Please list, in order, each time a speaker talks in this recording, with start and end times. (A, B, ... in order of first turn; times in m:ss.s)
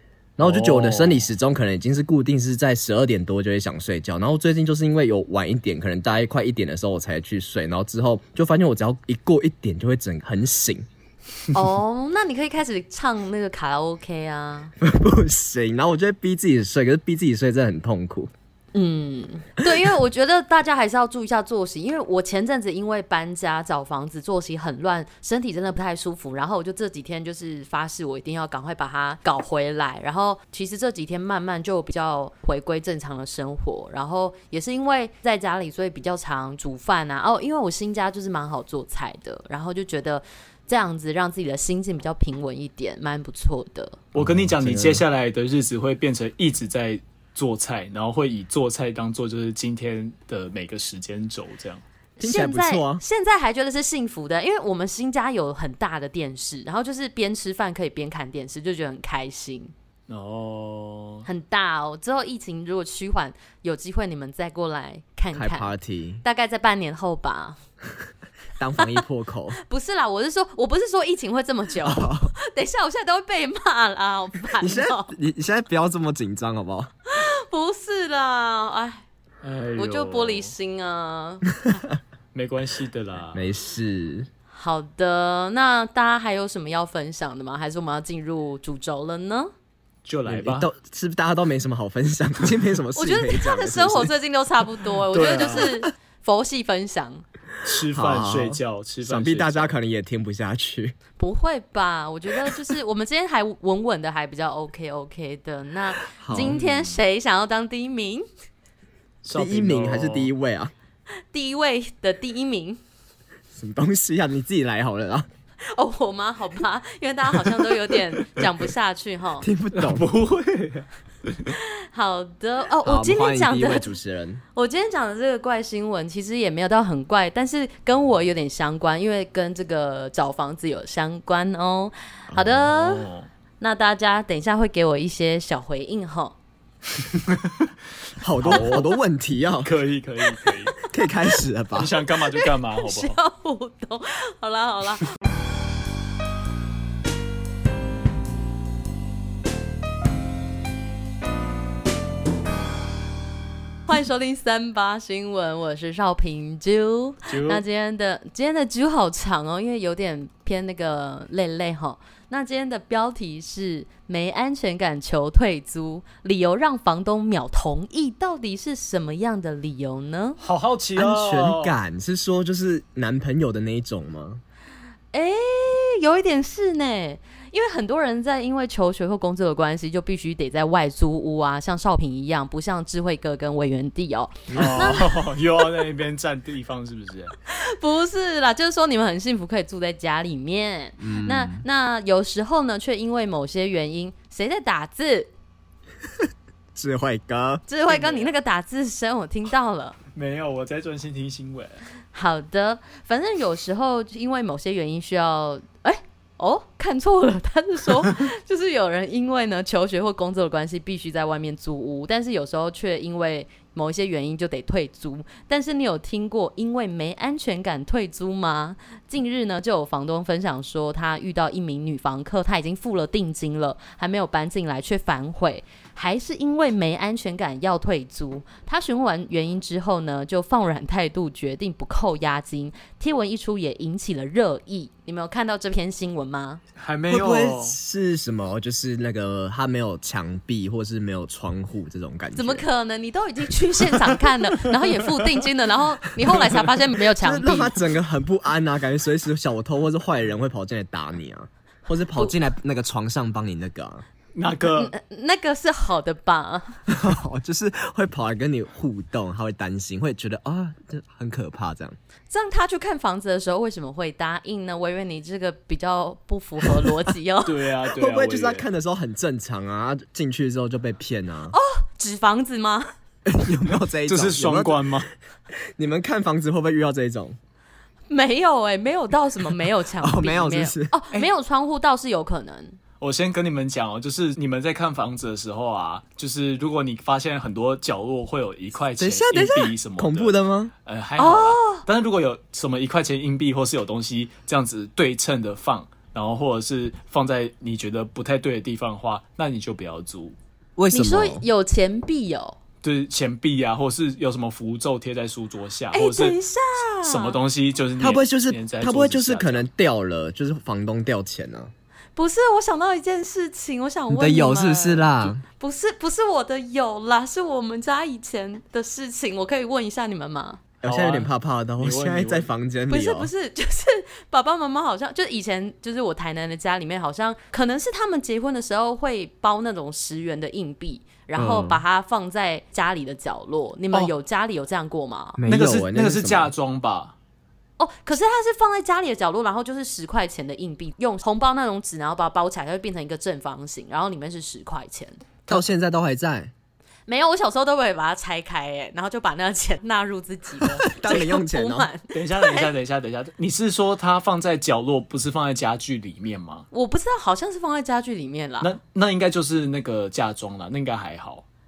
0:00.4-0:10.8 A
0:00.4-0:01.2 B
0:11.5-0:14.7 C
0:14.8-0:18.3 A
0:18.7-0:44.0 C
0:19.6-0:19.9 A
0:44.1-0:51.8 B
0:44.1-0:45.0 A
0:52.2-0:59.7 C
0:52.2-0:53.0 A
1:00.1-1:01.3 B
1:01.2-1:07.6 C
1:05.3-1:06.2 A
1:08.6-1:09.6 A
1:09.6-1:15.1 C
1:11.8-1:12.3 A
1:14.6-1:16.9 A
1:17.1-1:19.0 C
1:19.4-1:20.5 B
1:19.8-1:21.6 C
1:22.3-1:23.5 B
1:23.3-1:24.3 A
1:24.5-1:29.5 C
1:30.0-1:30.7 B
1:30.3-1:34.1 A
1:33.0-1:37.2 C
1:35.1-1:35.7 B
1:37.6-1:39.7 B
1:37.9-1:40.9 A
1:41.2-1:48.2 C
1:46.2-1:46.6 A
1:46.3-1:47.0 B
1:49.2-1:50.3 B
1:49.3-1:50.7 A
1:51.3-1:52.8 C
1:53.5-1:55.3 A
1:55.7-1:59.5 C
1:59.4-2:00.0 A
1:59.7-2:01.5 B
2:01.6-2:03.9 C
2:02.8-2:04.4 A
2:04.5-2:13.0 C
2:12.7-2:13.3 B
2:13.6-2:16.4 C
2:18.2-2:19.7 A
2:18.4-2:18.9 B
2:19.6-2:20.8 B
2:20.9-2:22.0 A
2:21.7-2:23.2 B
2:22.3-2:25.1 C
2:33.9-2:50.4 C
2:37.2-2:37.6 B
2:50.4-2:51.8 B
2:51.0-2:54.4 A
2:55.1-3:05.3 C
3:04.5-3:07.3 B
3:04.6-3:05.0 A
3:07.5-3:15.3 C
3:11.0-3:11.6 A
3:16.2-3:17.6 A
3:17.7-3:20.0 C
3:17.8-3:18.3 B
3:20.1-3:21.8 B
3:22.1-3:56.6 C
3:56.8-3:57.8 B
3:57.1-4:02.6 A
4:02.3-4:07.8 C
4:06.4-4:06.7 B
4:07.2-4:14.0 A
4:14.3-4:14.9 B
4:14.7-4:16.8 C
4:16.9-4:22.0 A
4:22.3-4:27.6 C
4:27.4-4:28.6 B
4:27.9-4:31.5 A
4:31.5-4:32.9 C
4:33.2-4:34.9 A
4:34.0-4:35.1 B
4:35.8-4:37.4 A
4:38.1-4:42.8 C
4:40.0-4:41.0 A
4:43.0-5:00.4 B
4:49.0-4:50.7 A
4:51.2-4:51.8 C
5:00.8-5:01.4 A
5:00.9-5:02.6 C
5:02.8-5:06.4 B
5:05.9-5:07.4 C
5:07.0-5:09.6 B
5:08.0-5:11.7 A
5:12.2-5:20.6 C
5:14.1-5:15.4 A
5:20.8-5:23.3 A
5:20.8-5:22.5 B
5:22.9-5:35.4 C
5:31.4-5:31.8 A
5:35.4-5:36.5 A
5:35.5-5:37.1 B
5:37.8-5:45.2 C
5:45.5-5:46.5 A
5:47.1-5:52.7 C
5:50.8-5:51.9 A
5:52.1-5:56.7 B
5:56.7-5:58.7 C
5:58.6-6:01.4 B